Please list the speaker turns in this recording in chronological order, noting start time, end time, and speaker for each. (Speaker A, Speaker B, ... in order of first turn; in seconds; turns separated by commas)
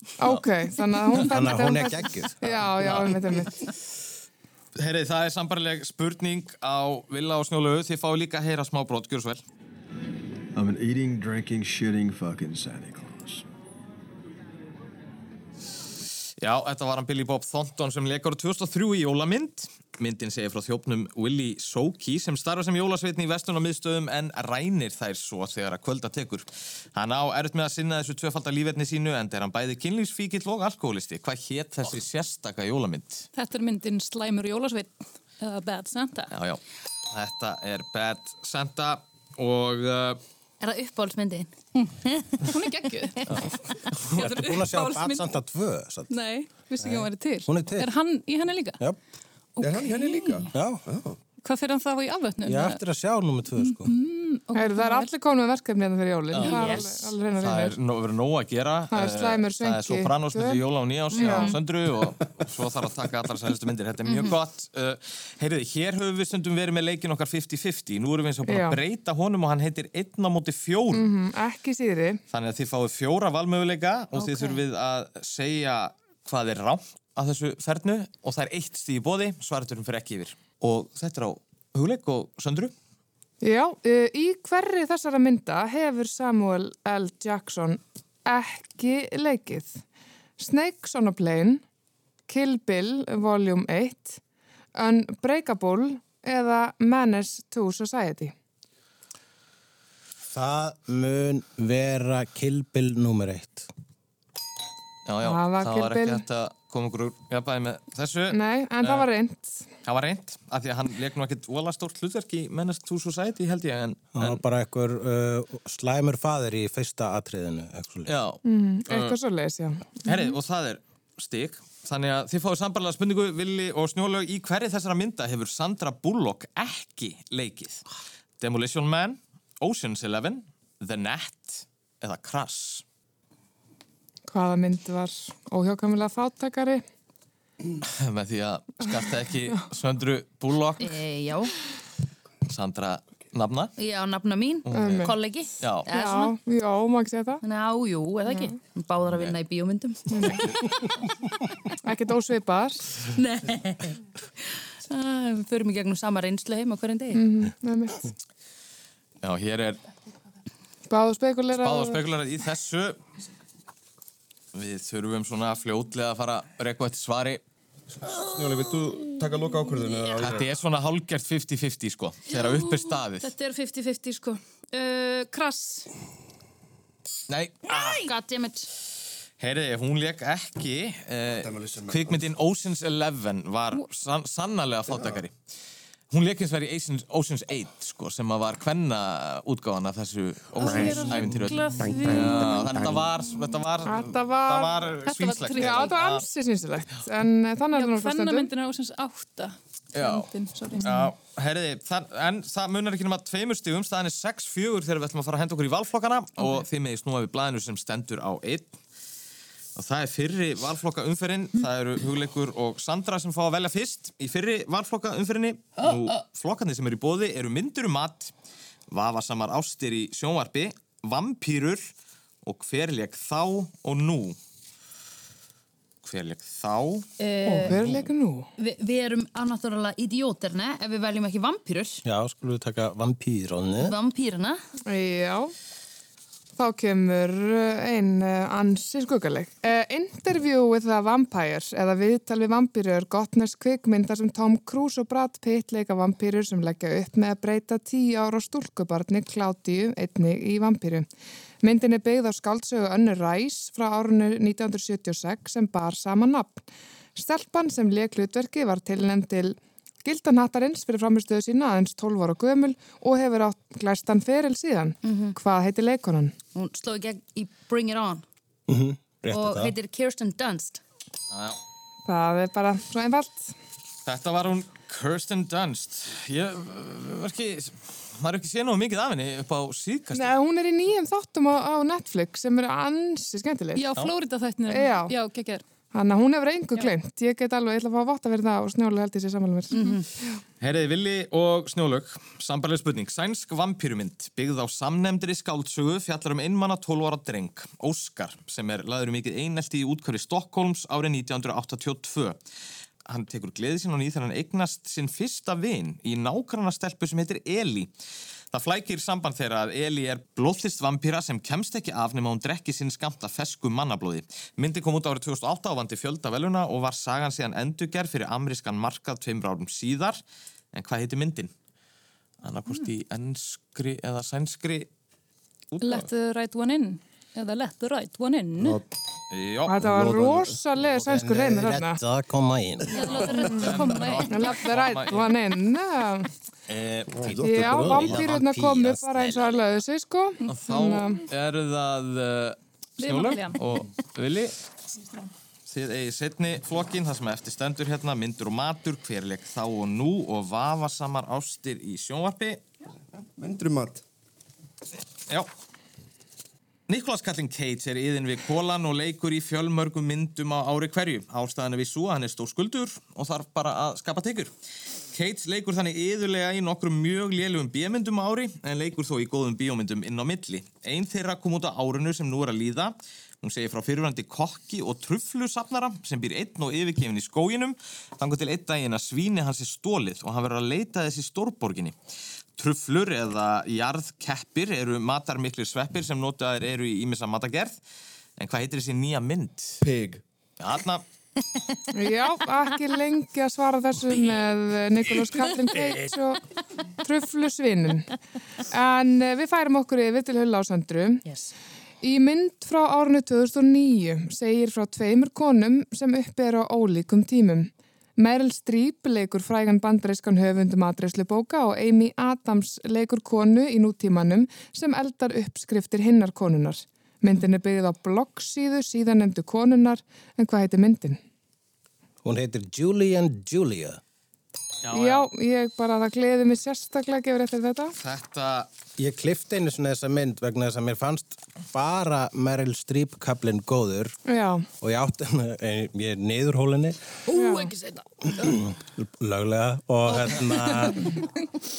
Speaker A: 0.2-3.6, Speaker B: 1.2-3.0, Speaker C: 4.8-9.4, Speaker D: 10.5-13.4, Speaker C: 16.4-33.3, Speaker E: 33.4-36.3, Speaker C: 36.3-40.2, Speaker F: 40.6-41.5, Speaker E: 41.8-43.2, Speaker F: 42.0-42.3, Speaker E: 44.1-45.2, Speaker B: 44.2-46.1, Speaker E: 46.1-48.8, Speaker B: 46.8-47.9, Speaker E: 49.6-50.5, Speaker G: 49.6-51.2, Speaker B: 50.5-50.8, Speaker E: 51.4-52.8, Speaker B: 52.4-53.9, Speaker E: 53.6-55.1, Speaker A: 54.5-57.8, Speaker C: 56.3-71.1, Speaker F: 56.5-56.8, Speaker A: 58.9-60.6, Speaker F: 61.1-61.6, Speaker A: 61.1-61.5, Speaker F: 64.0-64.4, Speaker A: 68.5-68.8, Speaker A: 70.9-72.2, Speaker C: 72.3-82.7, Speaker F: 74.2-74.5, Speaker A: 83.4-89.8, Speaker A: 90.4-91.6, Speaker A: 92.3-94.2, Speaker A: 94.8-98.3, Speaker B: 100.3-103.7, Speaker C: 105.0-109.0, Speaker A: 105.2-106.2, Speaker A: 108.3-109.6, Speaker C: 109.8-114.4, Speaker B: 114.1-118.1, Speaker C: 118.1-119.2, Speaker A: 118.4-120.3, Speaker C: 120.0-127.8, Speaker C: 128.4-132.8, Speaker A: 134.3-136.8, Speaker C: 137.8-141.0, Speaker F: 140.8-141.5, Speaker C: 142.4-143.7, Speaker F: 143.8-146.3, Speaker C: 144.7-145.9, Speaker A: 144.7-145.1, Speaker A: 145.9-147.4, Speaker F: 147.4-150.6, Speaker C: 149.1-149.4, Speaker A: 150.1-150.4, Speaker A: 151.8-152.9, Speaker F: 153.1-153.9, Speaker F: 154.9-157.2, Speaker A: 157.1-158.1, Speaker C: 159.2-159.8, Speaker A: 160.9-162.0, Speaker C: 161.6-163.0, Speaker C: 164.5-167.4, Speaker G: 168.0-170.5, Speaker C: 170.2-173.3, Speaker E: 172.3-175.9, Speaker C: 177.3-178.0, Speaker F: 177.7-178.7, Speaker C: 179.4-185.3, Speaker G: 181.3-182.2, Speaker G: 184.9-185.2, Speaker C: 186.1-196.2, Speaker E: 190.6-192.7, Speaker G: 190.6-193.1, Speaker A: 193.8-194.7, Speaker E: 195.1-195.9, Speaker A: 195.5-198.5, Speaker E: 197.7-201.1, Speaker C: 199.9-200.3, Speaker C: 200.8-208.8, Speaker C: 209.8-218.3, Speaker C: 218.9-221.9, Speaker C: 222.4-224.4, Speaker C: 226.0-227.1, Speaker F: 227.2-227.8, Speaker A: 227.4-228.5, Speaker F: 228.6-232.0, Speaker B: 232.0-233.9, Speaker F: 233.8-234.6, Speaker A: 234.8-235.5, Speaker A: 236.6-251.1, Speaker A: 251.6-266.3, Speaker F: 265.0-265.4, Speaker F: 266.5-268.2, Speaker B: 268.7-269.7, Speaker F: 269.3-270.8, Speaker C: 271.3-271.6, Speaker A: 272.1-273.5, Speaker C: 274.1-280.3, Speaker A: 280.1-283.8, Speaker E: 283.8-285.6, Speaker A: 284.7-285.1, Speaker A: 285.9-290.4, Speaker F: 289.7-290.0, Speaker C: 290.6-302.4, Speaker C: 303.1-307.9, Speaker C: 308.5-320.2, Speaker C: 320.7-321.5, Speaker C: 322.4-324.9, Speaker C: 325.7-326.1, Speaker E: 325.8-328.8, Speaker G: 328.6-328.8, Speaker C: 329.3-329.8, Speaker A: 329.7-332.0, Speaker G: 329.8-330.6, Speaker B: 330.8-332.9, Speaker E: 332.9-334.5, Speaker C: 333.0-335.3, Speaker A: 334.3-336.3, Speaker C: 336.7-337.1, Speaker G: 337.1-338.2, Speaker B: 337.2-339.4, Speaker A: 337.4-341.2, Speaker C: 340.5-344.5, Speaker E: 343.0-343.6, Speaker C: 345.7-352.6, Speaker G: 353.4-354.0, Speaker C: 356.9-364.5, Speaker C: 365.1-381.9, Speaker C: 382.6-387.8, Speaker C: 388.4-389.8, Speaker G: 389.8-390.2, Speaker C: 390.6-391.0, Speaker A: 391.9-396.4, Speaker A: 397.0-398.1, Speaker A: 398.7-401.2, Speaker F: 401.2-401.5, Speaker A: 402.0-421.2, Speaker B: 422.2-424.0, Speaker C: 424.8-425.3, Speaker A: 424.9-427.9, Speaker C: 428.0-428.7, Speaker B: 429.0-434.2, Speaker A: 434.2-434.7, Speaker B: 434.8-437.0, Speaker F: 437.3-438.0, Speaker A: 437.3-437.7, Speaker B: 438.3-441.0